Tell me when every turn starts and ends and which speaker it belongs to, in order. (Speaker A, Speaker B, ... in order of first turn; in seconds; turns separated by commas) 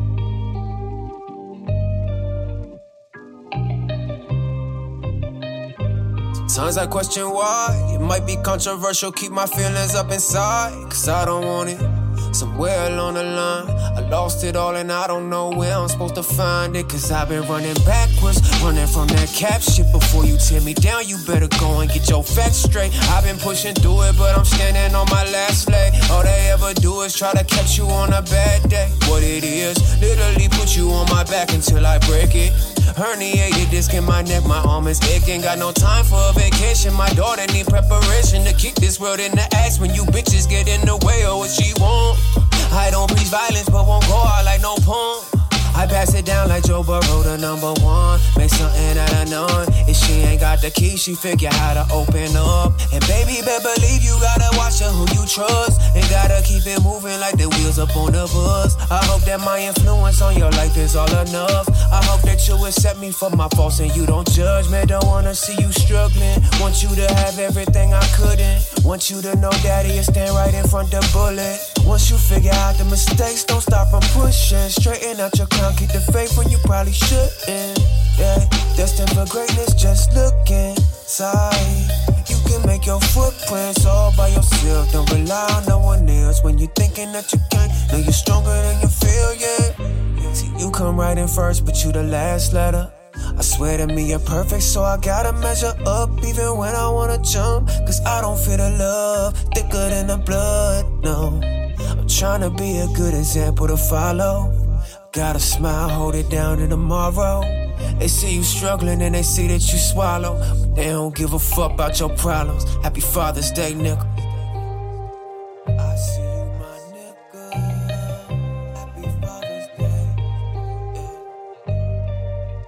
Speaker A: 6.5-114.6, Speaker A: 115.8-120.3, Speaker A: 120.9-121.3